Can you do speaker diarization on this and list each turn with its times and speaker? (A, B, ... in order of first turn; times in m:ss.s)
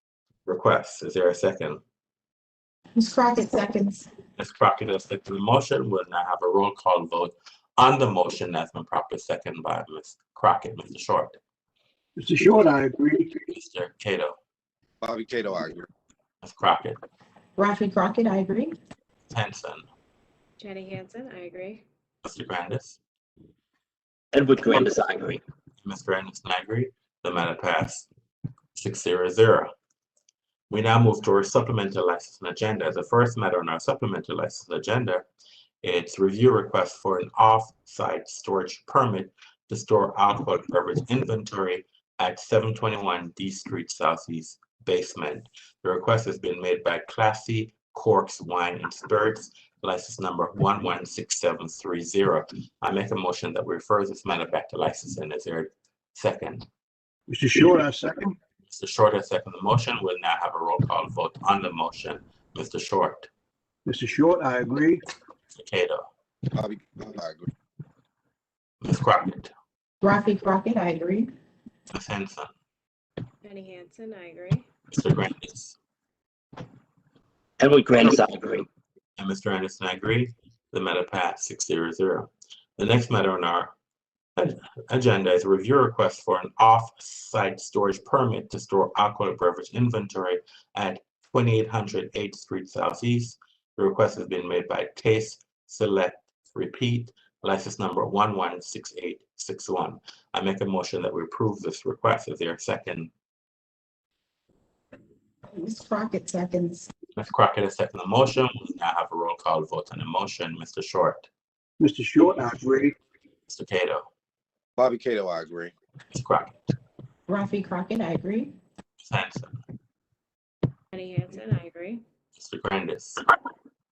0:00.5-0:01.8 A
0:03.0-0:04.1 B
0:04.4-0:11.4 A
0:12.2-0:13.4 C
0:13.5-0:14.4 A
0:15.0-0:15.9 D
0:16.4-0:17.0 A
0:17.6-0:18.7 B
0:19.3-0:19.8 A
0:20.6-0:21.8 E
0:22.2-0:23.0 A
0:24.3-0:25.4 F
0:25.8-0:28.1 A
0:28.8-0:29.7 A
0:30.7-0:35.3 A
0:35.8-0:56.6 A
0:57.3-0:58.4 C
0:58.7-1:03.3 A
1:03.9-1:05.0 C
1:05.5-1:06.1 A
1:06.5-1:07.5 D
1:08.8-1:09.5 A
1:10.0-1:11.3 B
1:11.9-1:12.5 A
1:13.4-1:14.7 E
1:14.9-1:15.8 A
1:17.6-1:18.7 F
1:19.2-1:23.7 A
1:24.4-1:43.1 A
1:45.5-1:46.9 B
1:47.2-1:51.3 A
1:51.8-1:53.0 C
1:53.5-1:54.1 A
1:54.8-1:55.7 D
1:56.1-1:56.7 A
1:57.3-1:58.5 B
1:59.0-1:59.6 A
2:00.9-2:02.0 E
2:02.4-2:03.2 A